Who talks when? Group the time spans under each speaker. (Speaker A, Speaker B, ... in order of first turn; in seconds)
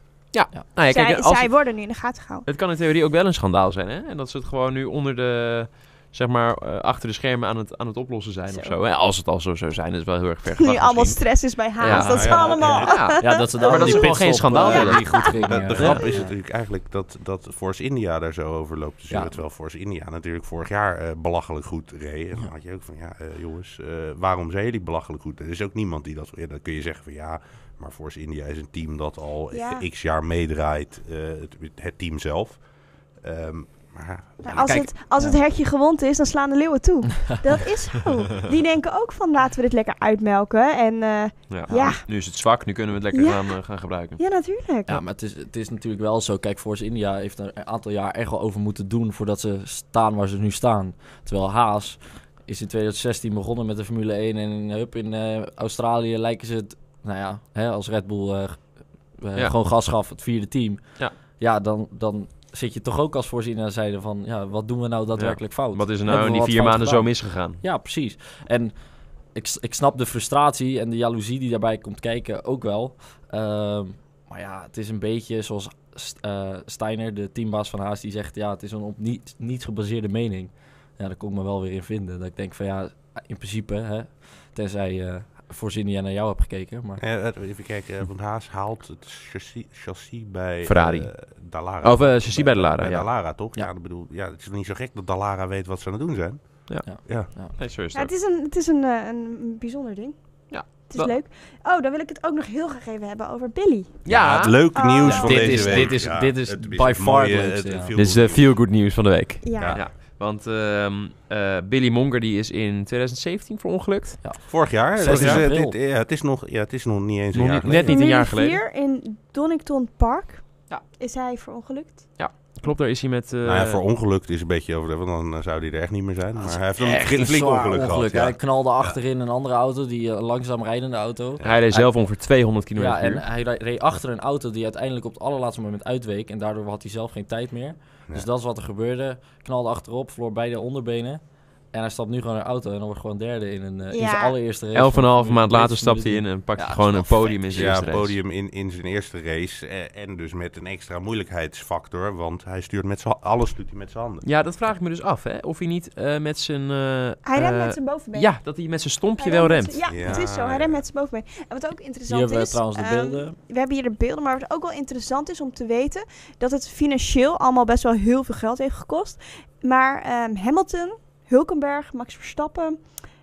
Speaker A: 0.3-1.7, 2.5-16.0, 41.5-44.2, 65.1-67.6, 90.6-93.1, 96.7-98.1, 100.5-101.2, 104.0-105.1, 107.9-114.2, 115.0-115.4, 117.3-118.6, 122.2-123.8, 131.4-133.2, 144.7-148.2, 154.2-160.2
Speaker B: 0.9-2.5, 8.5-8.8, 10.6-16.2, 29.5-29.8, 34.4-42.0, 43.1-43.6, 44.2-45.0, 97.9-104.0, 104.7-105.9, 109.4-109.8, 117.8-122.1, 143.9-144.3, 157.2-158.3, 159.2-172.8
Speaker C: 11.8-16.3, 19.1-19.4, 41.7-41.9, 44.9-87.0, 96.8-97.5, 105.0-108.0, 114.2-115.8, 117.7-117.9, 126.4-132.1, 132.7-147.8, 162.1-163.4
Speaker D: 12.0-13.1, 15.1-34.9, 87.0-97.3, 104.0-108.7, 109.6-109.9, 114.5-117.9, 123.4-129.0, 147.5-154.3, 159.8-160.8